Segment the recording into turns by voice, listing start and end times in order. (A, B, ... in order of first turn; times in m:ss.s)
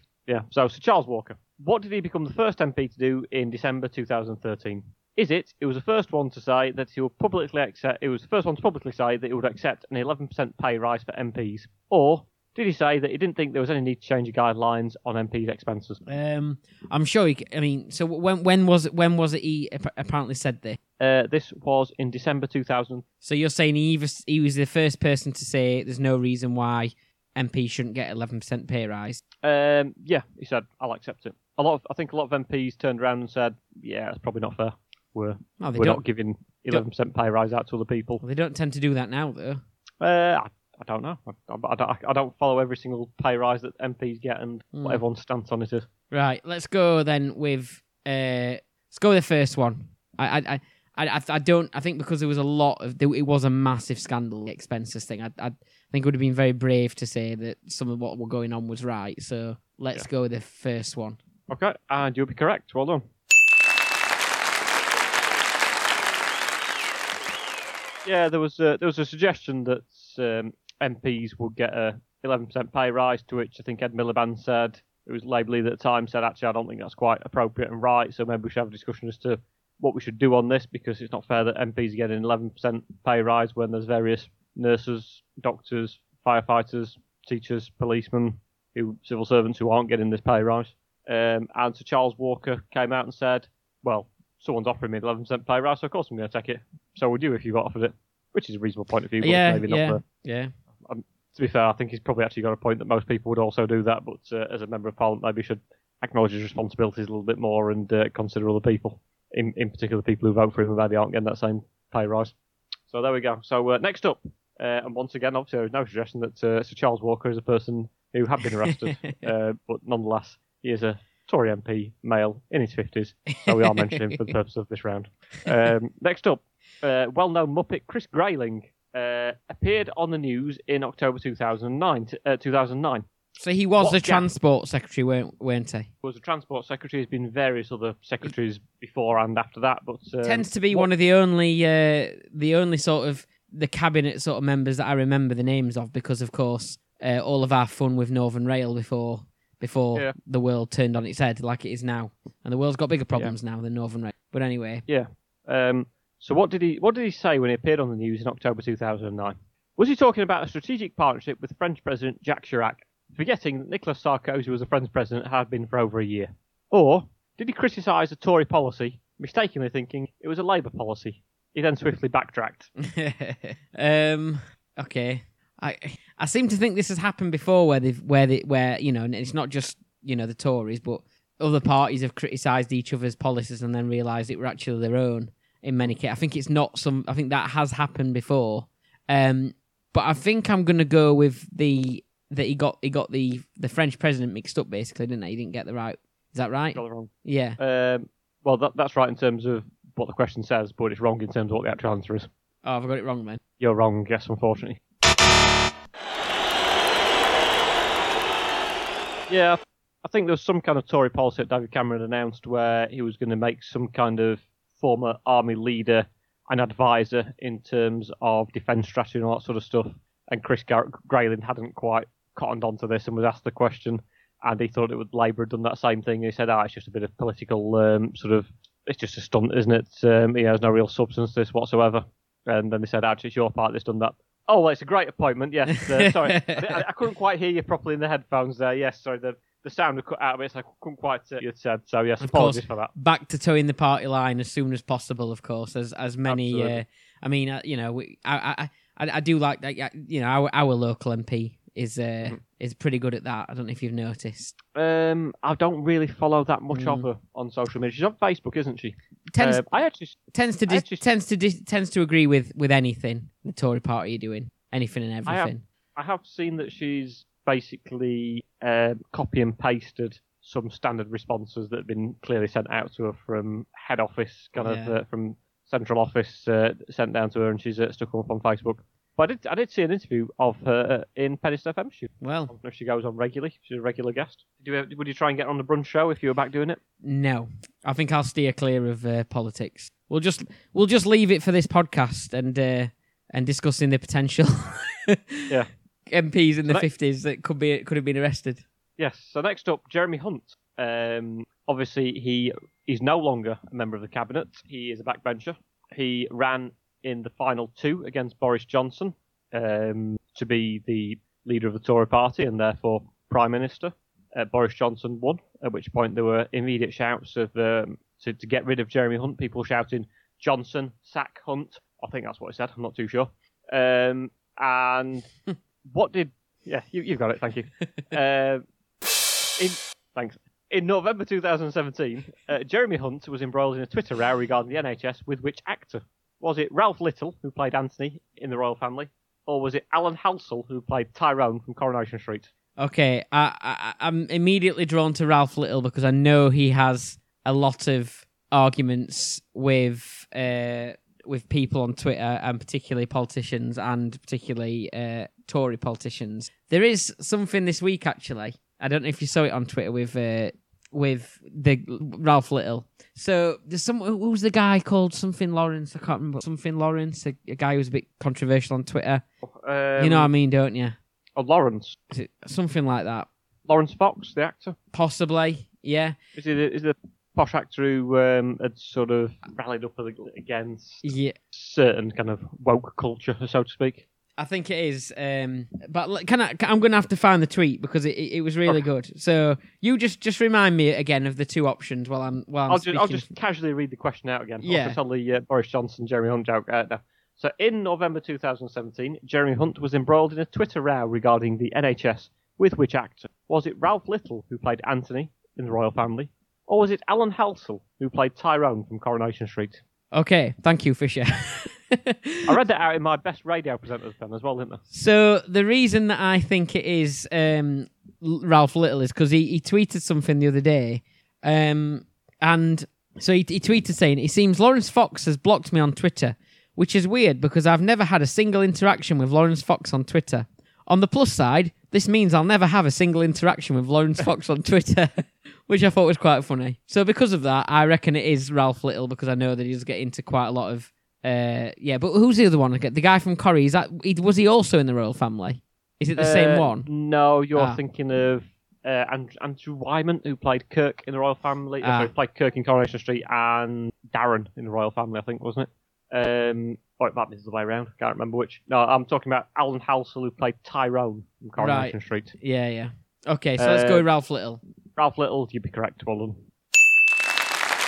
0:00.3-0:16.0 A
0:16.0-0:20.8 B
0:21.0-0:23.0 A
0:23.2-0:29.2 B
0:29.4-0:38.2 A
0:35.6-0:36.0 B
0:38.2-0:39.6 B
0:40.0-0:45.9 A
0:44.7-0:45.0 B
0:46.1-1:01.2 B
1:01.5-1:03.0 A
1:08.0-1:40.0 A
1:39.2-1:40.5 B
1:40.8-1:52.3 A
1:52.9-2:13.0 A
1:58.7-1:59.2 B
2:03.3-2:04.3 B
2:13.4-2:15.9 B
2:13.8-2:14.3 A
2:16.0-2:20.9 A
2:20.2-2:34.8 B
2:34.9-2:52.7 A
2:52.8-3:17.6 B
3:16.7-3:22.3 A
3:22.6-3:23.4 B
3:23.6-3:24.8 A
3:29.3-4:02.9 A
3:55.9-3:56.8 B
4:02.2-4:14.5 B
4:06.3-4:06.8 A
4:14.7-4:21.0 A
4:16.7-4:17.0 B
4:19.3-4:19.6 B
4:20.3-4:25.6 B
4:25.3-4:46.8 A
4:34.6-4:34.9 B
4:42.2-4:42.5 B
4:47.0-4:55.5 B
4:56.1-4:58.6 B
4:59.0-5:25.3 A
5:25.9-5:28.6 A
5:29.6-5:42.5 A
5:42.8-6:09.2 B
6:09.4-6:10.3 A
6:10.0-6:11.0 B
6:11.4-6:12.0 A
6:12.1-6:13.3 B
6:13.7-6:14.8 A
6:14.9-6:16.2 B
6:16.4-6:24.0 A
6:21.0-6:21.3 B
6:24.4-6:33.3 B
6:32.7-6:49.8 A
6:34.6-6:35.0 B
6:50.1-6:52.5 B
6:52.4-6:54.8 A
6:54.9-7:26.9 B
7:26.2-7:42.3 A
7:31.8-7:32.1 B
7:41.6-7:44.6 B
7:43.6-7:44.0 A
7:45.0-7:46.4 A